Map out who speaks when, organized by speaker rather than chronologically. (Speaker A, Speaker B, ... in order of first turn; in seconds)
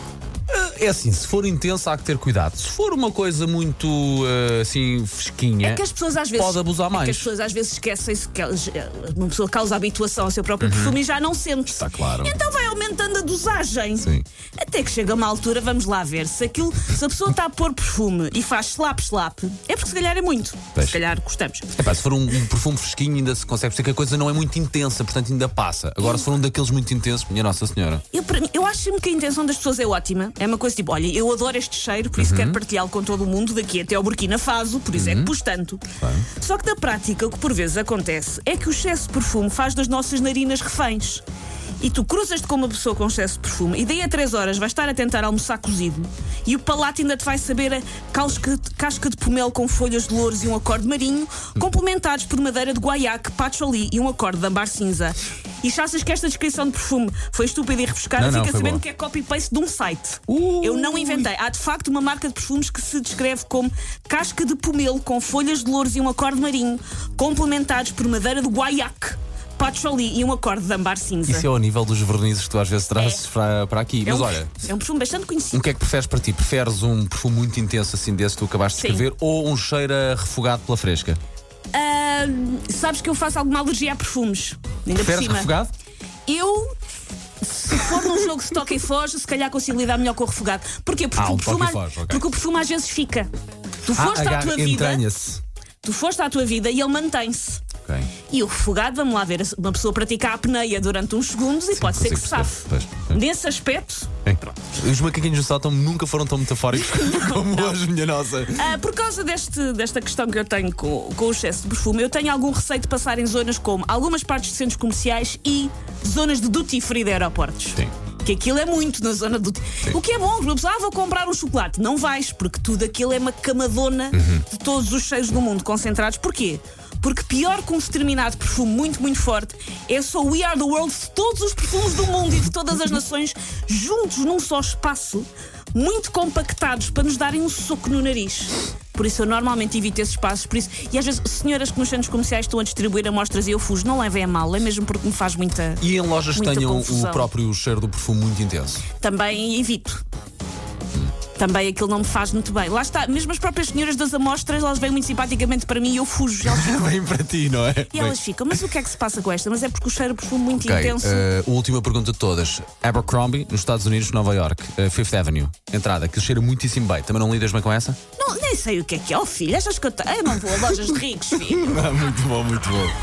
Speaker A: 0.5-5.8, 6.3-7.3, 10.6-11.0, 11.7-12.4, 14.0-14.2, 21.7-28.0, 32.2-32.6, 34.9-35.3, 35.9-36.3, 58.2-58.8, 60.3-61.3, 71.3-74.5, 75.5-81.2, 85.0-85.7, 91.2-92.2, 93.9-95.4, 97.8-98.1, 101.7-103.2, 104.2-108.8, 124.1-124.4, 145.8-148.8, 156.4-158.2, 160.5-168.0, 171.4-172.9
Speaker B: 5.6-21.7, 28.1-41.2, 41.8-71.5, 74.0-75.6, 78.8-79.0, 81.7-85.5, 86.2-86.7, 87.4-93.3, 93.8-95.0, 95.8-97.6, 98.3-104.5, 106.9-107.7, 108.5-145.8, 146.3-147.3, 148.9-150.0, 151.3-156.9, 157.9-161.2, 168.2-171.7